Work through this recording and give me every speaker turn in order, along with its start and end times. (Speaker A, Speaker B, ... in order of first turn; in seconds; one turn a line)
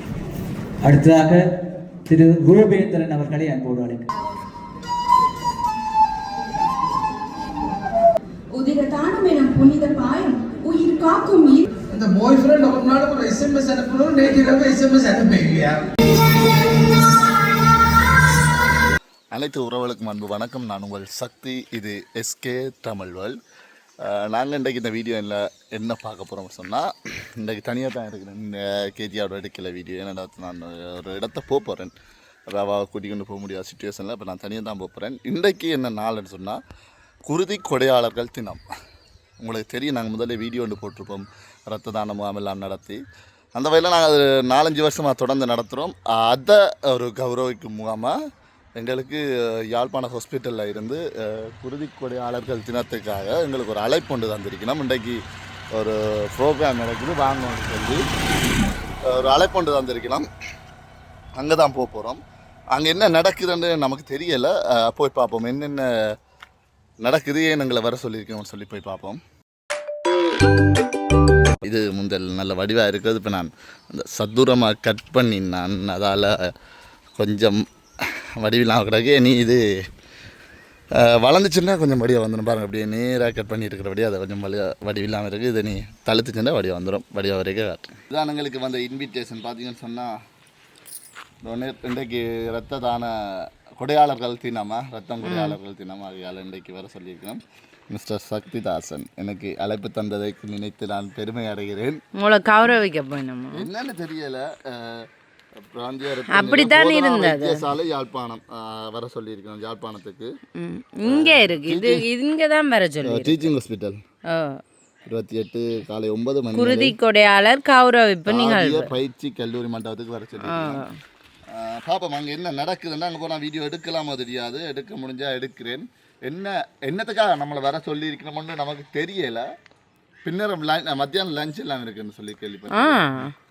Speaker A: 0.9-1.4
Speaker A: 2.1-4.1
Speaker B: 8.6-11.7
Speaker C: 11.9-15.8
Speaker D: 19.3-23.4
Speaker D: 24.0-31.9
Speaker D: 32.5-36.6
Speaker D: 37.3-38.6
Speaker D: 39.4-43.0
Speaker D: 43.5-48.2
Speaker D: 48.8-55.2
Speaker D: 55.8-58.0
Speaker D: 59.1-60.3
Speaker D: 61.4-62.2
Speaker D: 62.7-65.9
Speaker D: 67.0-69.2
Speaker D: 71.6-76.4
Speaker D: 77.2-77.6
Speaker D: 78.4-79.6
Speaker D: 81.0-90.1
Speaker D: 91.4-93.1
Speaker D: 93.8-97.4
Speaker E: 95.2-95.6
Speaker D: 97.9-102.0
Speaker E: 102.2-103.7
Speaker D: 103.5-105.1
Speaker D: 105.7-110.3
Speaker E: 106.3-107.6
Speaker E: 110.6-113.5
Speaker D: 111.0-112.1
Speaker D: 113.0-114.0
Speaker E: 114.3-114.6
Speaker D: 115.1-117.0
Speaker E: 116.5-118.9
Speaker D: 118.3-120.8
Speaker E: 120.4-120.9
Speaker D: 121.5-129.5
Speaker D: 130.2-133.3
Speaker E: 132.7-133.3